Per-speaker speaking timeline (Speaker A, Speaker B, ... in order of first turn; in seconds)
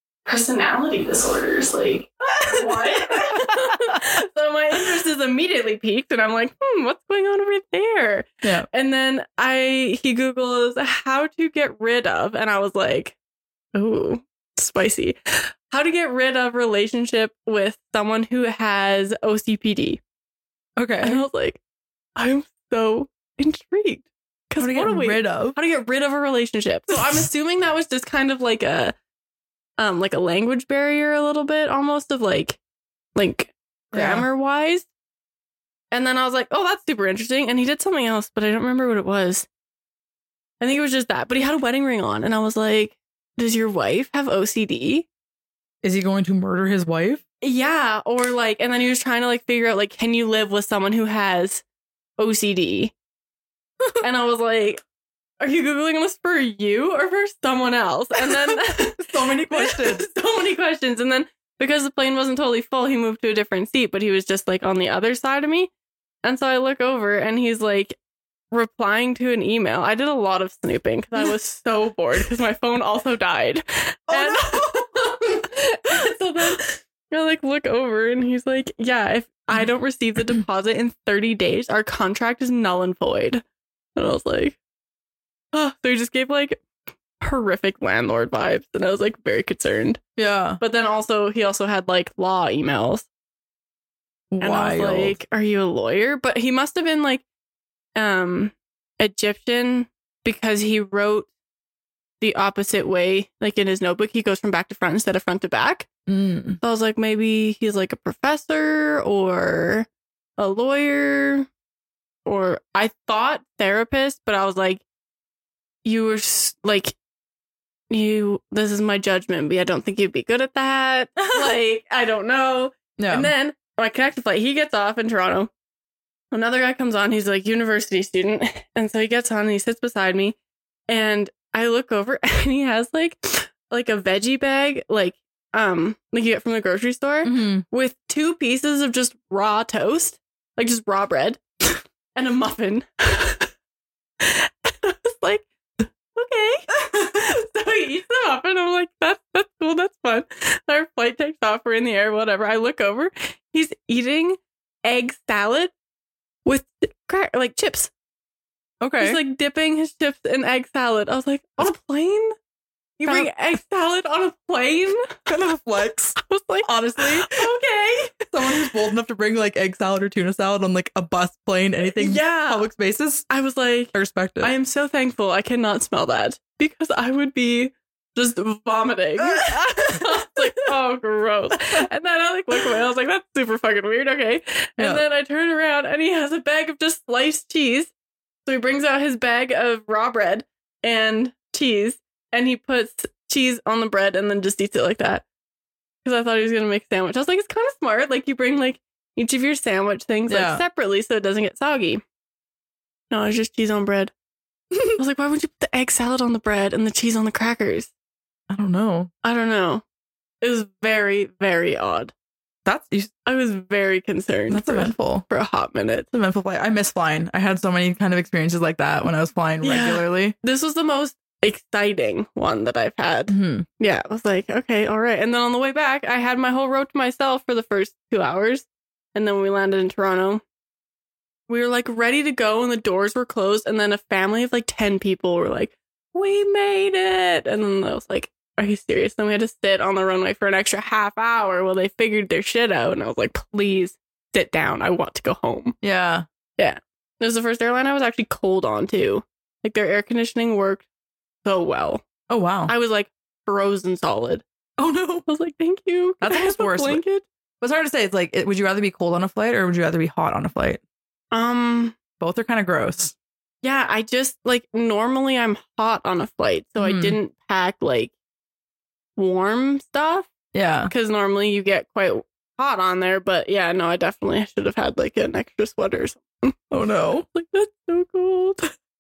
Speaker A: 0.2-13.1, 13.7-20.0, 21.0-21.6, 22.2-28.9, 29.8-32.6, 33.1-34.9, 35.9-39.5, 40.6-45.1, 47.4-51.6, 52.2-52.9, 54.0-54.8, 55.4-65.7, 66.2-68.0, 68.5-83.4, 84.0-84.6, 85.5-86.6, 87.2-90.0, 90.6-93.1, 94.4-97.2, 98.0-101.3, 102.2-105.9, 106.6-111.5, 112.2-114.8, 115.8-116.9, 117.9-125.5, 126.3-130.3, 130.9-141.4, 142.1-143.5, 144.2-145.5, 146.1-155.7, 156.4-157.9, 159.0-162.3, 163.0-165.1, 166.2-168.7, 171.8-172.7, 173.3-187.9, 188.4-195.2, 196.0-202.0, 203.1-204.1, 204.9-207.9, 209.2-209.8, 210.4-212.1, 213.2-216.1, 219.6-230.4, 231.5-245.7, 246.6-250.8, 251.4-252.0, 252.7-254.4, 255.3-257.2, 261.3-261.9, 263.6-268.1, 269.1-270.3, 270.9-276.7, 277.3-278.7
Speaker B: 2.5-4.0, 8.4-8.7, 20.8-21.2, 24.6-25.6, 33.9-34.2, 45.8-47.2, 58.2-60.0, 74.1-75.2, 90.2-90.6, 94.3-95.2, 106.1-106.6, 121.2-121.5, 123.0-123.3, 137.2-137.6, 158.8-159.2, 165.3-167.5, 168.3-173.3, 173.9-174.5, 179.2-180.3, 200.3-200.6, 208.5-209.1, 212.7-213.1, 214.5-215.2, 216.1-220.3, 223.3-223.7, 245.8-246.2, 252.3-252.7, 254.8-255.3, 256.2-257.0, 257.6-260.8, 262.2-263.1, 266.8-267.2, 270.5-270.9, 276.7-277.3